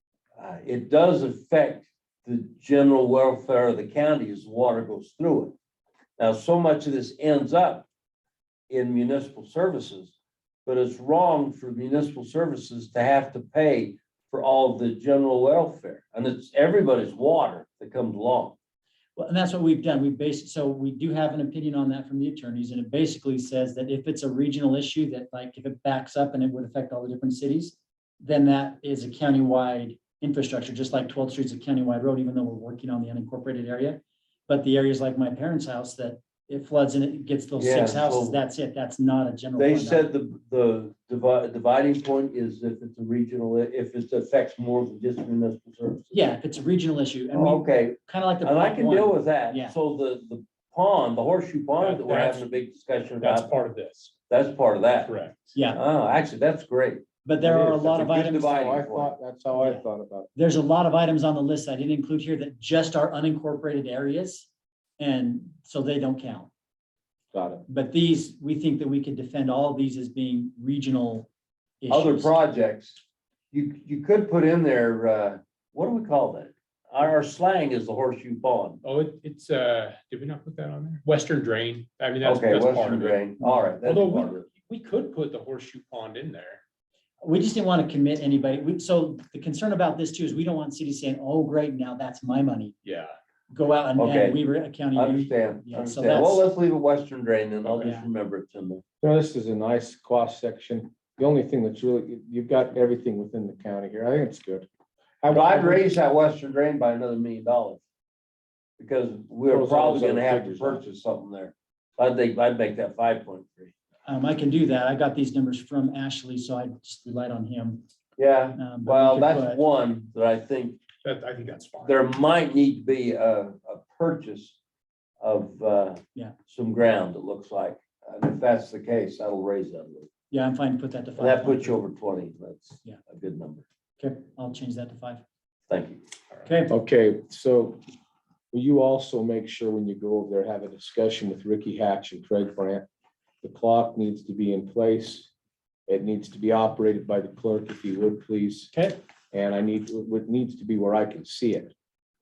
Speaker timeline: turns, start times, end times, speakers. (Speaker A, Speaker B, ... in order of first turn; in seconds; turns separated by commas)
Speaker A: 0.4-5.5, Speaker A: 6.2-7.9, Speaker A: 8.7-10.1, Speaker A: 10.7-18.6, Speaker B: 19.2-40.1, Speaker A: 37.6-38.4, Speaker A: 39.6-46.3, Speaker B: 46.1-49.8, Speaker A: 47.3-53.5, Speaker C: 51.8-52.4, Speaker C: 53.2-54.1, Speaker A: 54.3-55.1, Speaker C: 55.0-55.6, Speaker B: 55.5-55.8, Speaker A: 55.7-57.0, Speaker B: 57.2-58.5, Speaker D: 57.4-60.3, Speaker A: 57.9-59.1, Speaker B: 59.5-59.9, Speaker B: 60.4-66.5, Speaker D: 67.3-67.7, Speaker B: 67.7-71.3, Speaker B: 71.8-72.3, Speaker A: 71.9-73.0, Speaker A: 73.5-78.8, Speaker C: 78.8-83.2, Speaker A: 82.2-84.5, Speaker C: 83.8-86.6, Speaker B: 87.2-92.8, Speaker C: 92.8-93.1, Speaker B: 93.5-96.5, Speaker A: 94.0-94.4, Speaker A: 94.9-98.8, Speaker B: 97.8-98.1, Speaker D: 99.0-104.7, Speaker D: 105.2-105.9, Speaker A: 105.3-107.8, Speaker A: 108.8-113.7, Speaker D: 109.5-110.8, Speaker B: 114.1-117.8, Speaker A: 118.2-120.8, Speaker B: 118.6-119.6, Speaker C: 121.0-122.0, Speaker A: 121.8-124.6, Speaker A: 125.2-130.1, Speaker B: 130.3-131.8, Speaker A: 131.2-133.7, Speaker B: 134.0-135.2, Speaker A: 135.7-136.0, Speaker B: 136.4-136.7, Speaker D: 136.7-137.8, Speaker D: 138.5-142.8, Speaker D: 143.4-145.3, Speaker D: 145.9-148.7, Speaker D: 149.3-151.7